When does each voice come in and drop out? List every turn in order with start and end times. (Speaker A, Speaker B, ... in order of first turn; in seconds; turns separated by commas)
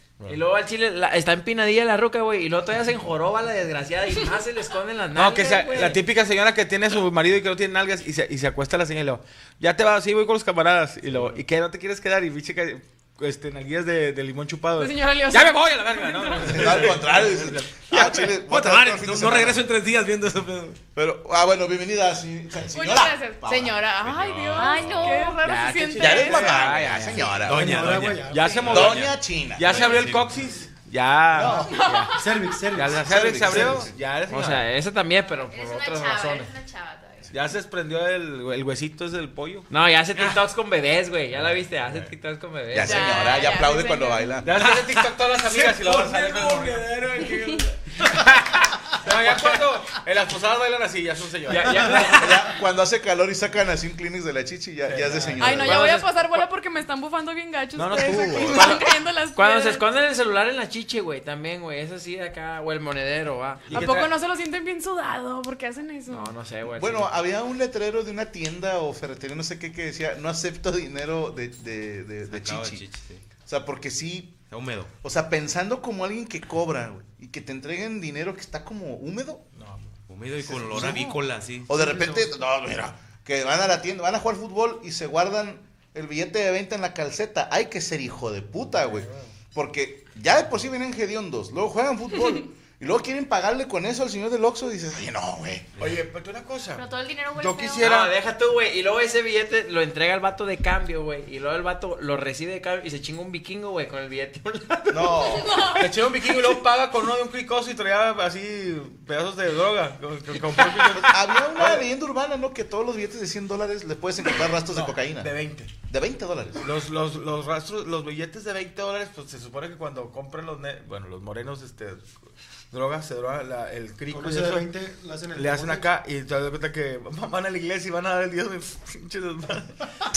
Speaker A: 0.3-6.0, Speaker B: 5.1-18.3, Speaker C: 14.8-16.9, Speaker D: 16.4-19.6, Speaker E: 18.4-20.8, Speaker D: 20.9-25.1, Speaker C: 22.7-26.7, Speaker E: 24.0-25.1, Speaker F: 24.6-25.4, Speaker A: 25.2-27.4, Speaker D: 26.0-27.8, Speaker B: 26.5-27.3, Speaker E: 27.4-30.4, Speaker G: 27.5-28.8, Speaker B: 28.2-34.7, Speaker D: 28.6-30.2, Speaker G: 31.3-33.8, Speaker C: 31.6-32.6, Speaker D: 32.9-34.0, Speaker A: 34.3-36.5, Speaker F: 35.5-37.3, Speaker B: 37.3-39.7, Speaker A: 39.7-43.4, Speaker D: 42.7-44.5, Speaker C: 42.8-44.4, Speaker B: 44.4-47.1, Speaker E: 44.6-48.1, Speaker A: 48.2-48.7, Speaker B: 48.9-52.5, Speaker A: 51.5-52.1, Speaker E: 51.7-52.4, Speaker D: 52.0-55.9, Speaker B: 54.9-55.9, Speaker C: 55.4-59.8, Speaker A: 55.7-56.0, Speaker B: 57.8-58.8, Speaker A: 58.5-64.0, Speaker B: 63.7-64.1, Speaker C: 63.7-66.3, Speaker A: 66.1-67.1, Speaker D: 66.7-72.8, Speaker E: 72.3-73.2, Speaker D: 73.5-74.4, Speaker E: 74.5-74.9, Speaker D: 75.0-79.4, Speaker B: 79.5-79.9, Speaker E: 80.1-81.7, Speaker D: 80.4-95.7, Speaker B: 81.7-82.3, Speaker B: 88.8-89.3, Speaker B: 95.8-98.2, Speaker F: 96.8-97.9, Speaker A: 97.8-105.4, Speaker D: 104.9-105.7, Speaker C: 105.6-105.8, Speaker B: 105.8-111.9, Speaker D: 111.0-116.7, Speaker B: 114.7-115.7, Speaker B: 116.6-122.1, Speaker B: 122.7-124.7, Speaker G: 124.1-125.9, Speaker B: 125.3-129.8